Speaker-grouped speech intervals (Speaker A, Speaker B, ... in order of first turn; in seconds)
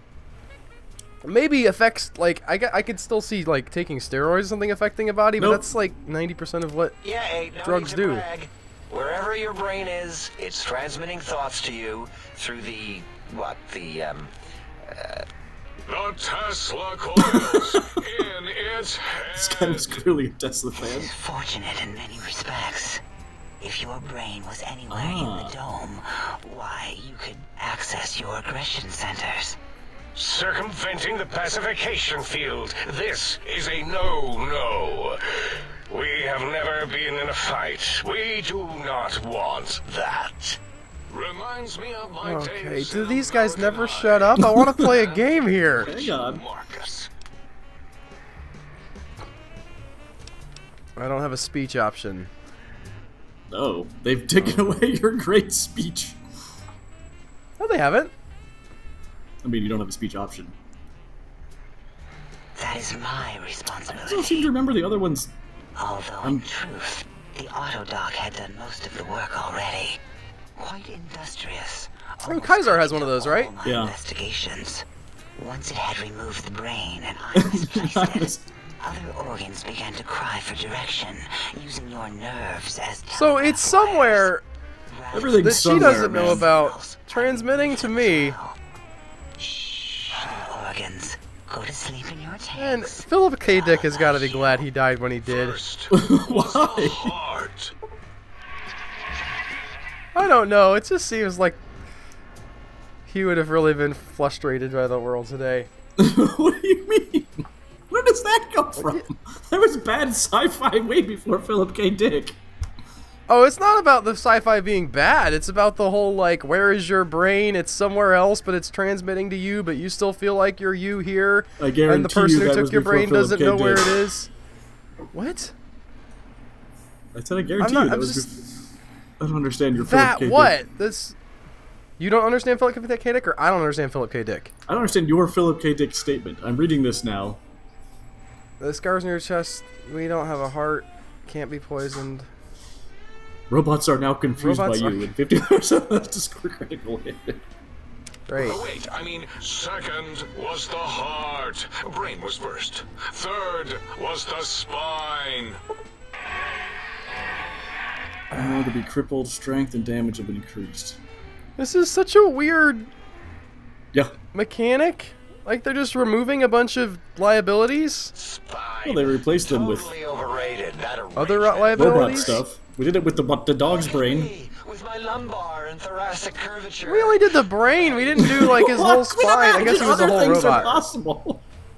Speaker A: 1.2-7.0, 7.6-8.3, 42.2-46.1, 51.0-52.3, 57.6-58.1, 72.3-73.5, 83.1-84.4, 85.4-88.4, 92.5-95.6, 100.2-101.6, 103.1-105.7, 108.8-109.0, 113.3-124.3, 125.1-125.5, 127.6-128.3, 129.8-131.2, 132.0-134.5, 138.6-142.3, 144.4-145.1, 148.3-148.6, 158.3-158.7, 161.6-162.9, 164.3-168.1, 171.1-172.4, 176.8-180.8
Speaker B: 5.4-5.7, 17.2-18.0, 19.3-21.1, 24.9-25.6, 44.5-44.9, 45.8-46.4, 53.5-56.2, 59.4-60.5, 63.9-65.3, 73.6-74.0, 77.3-78.5, 85.1-86.5, 95.9-97.2, 106.0-112.4, 121.6-123.9, 127.1-128.6, 129.2-130.6, 134.7-137.4, 143.5-147.4, 158.3-161.0, 168.8-169.9, 171.8-174.3, 178.2-181.4
Speaker C: 7.0-14.3, 14.8-15.2, 168.2-172.4, 173.7-177.3, 177.9-178.1
Speaker D: 15.9-20.0, 30.1-40.6, 41.1-47.1, 95.3-97.7, 148.3-155.6, 168.3-169.2
Speaker E: 20.8-23.0, 23.6-29.6, 62.5-64.5, 65.8-70.0, 70.6-74.8, 75.4-84.3, 84.9-88.6, 90.1-94.6